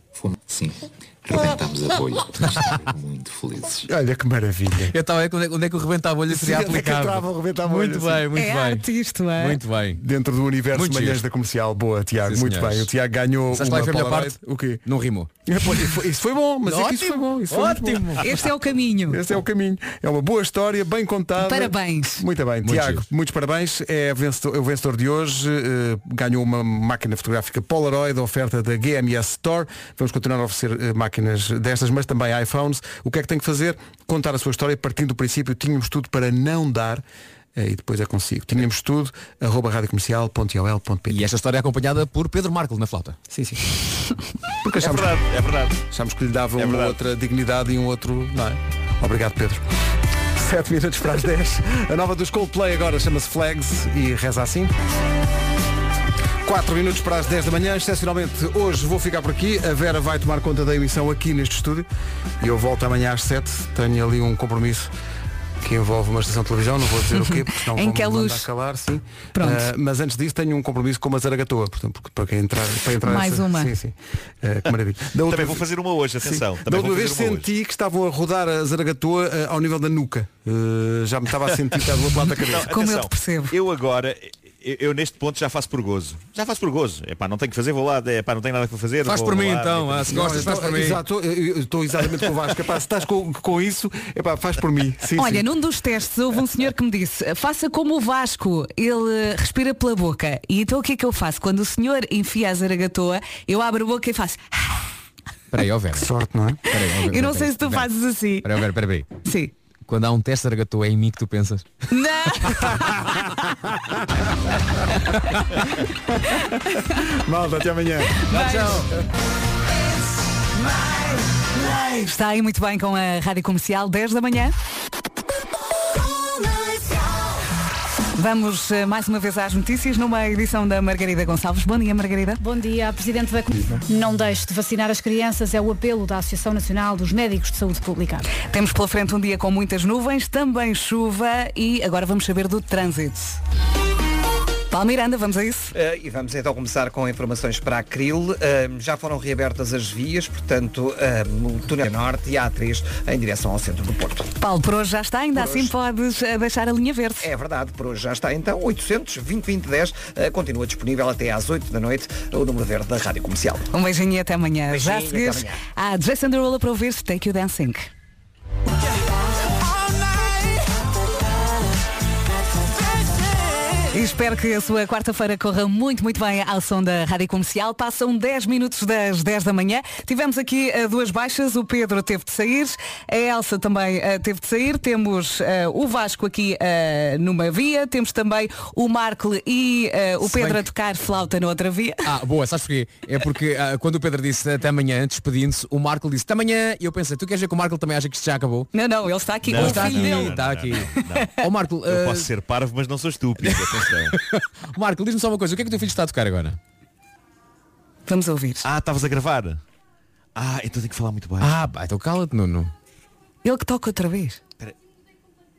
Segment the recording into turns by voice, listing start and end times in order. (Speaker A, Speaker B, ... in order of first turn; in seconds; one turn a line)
Speaker A: 0.1-3.9
Speaker B: 3.8-5.0
Speaker C: 4.9-10.0
Speaker B: 6.3-8.2
Speaker D: 8.3-9.6
Speaker B: 9.9-14.8
Speaker C: 10.7-11.2
Speaker C: 12.2-12.9
Speaker C: 13.5-15.3
Speaker B: 15.4-18.2
Speaker C: 16.6-18.3
Speaker D: 18.2-19.2
Speaker B: 19.1-37.0
Speaker D: 21.4-22.2
Speaker C: 22.6-23.0
Speaker B: 37.5-41.3
Speaker C: 41.1-43.2
Speaker B: 43.3-43.7
Speaker B: 44.6-45.2
Speaker E: 44.8-45.8
Speaker B: 45.9-49.6
Speaker E: 46.6-47.0
Speaker B: 50.3-54.7
Speaker B: 56.4-61.9
Speaker B: 62.4-64.9
Speaker B: 65.6-75.7
Speaker D: 67.2-68.5
Speaker D: 69.3-69.7
Speaker D: 73.0-73.7
Speaker E: 75.3-77.5
Speaker B: 76.2-82.7
Speaker E: 82.4-90.3
Speaker D: 82.7-83.5
Speaker C: 89.0-91.0
Speaker B: 90.1-95.5
Speaker D: 95.2-104.9
Speaker C: 105.5-106.1
Speaker B: 105.9-106.7
Speaker C: 106.7-107.9
Speaker D: 107.1-108.5
Speaker C: 108.4-109.1
Speaker D: 109.2-109.5
Speaker C: 109.9-111.8
Speaker D: 111.9-113.0
Speaker B: 112.7-114.5
Speaker B: 116.2-118.2
Speaker D: 118.2-118.8
Speaker C: 118.3-118.9
Speaker D: 121.8-124.5
Speaker D: 128.1-132.4
Speaker F: 132.4-138.3
Speaker D: 138.3-143.4
Speaker D: 144.7-145.7
Speaker G: 145.7-154.3
Speaker D: 154.4-157.3
Speaker G: 155.3-155.7
Speaker G: 157.2-163.7
Speaker D: 163.7-167.9
Speaker G: 164.7-165.6
Speaker D: 173.9-192.1
Speaker C: 190.2-190.6
Speaker C: 192.0-198.7
Speaker D: 198.7-200.4
Speaker E: 199.4-204.2
Speaker C: 199.5-202.3
Speaker D: 201.1-201.4
Speaker C: 203.4-206.6
Speaker D: 208.1-208.7
Speaker E: 208.6-209.6
Speaker E: 210.3-211.5
Speaker C: 211.4-212.7
Speaker D: 213.4-214.4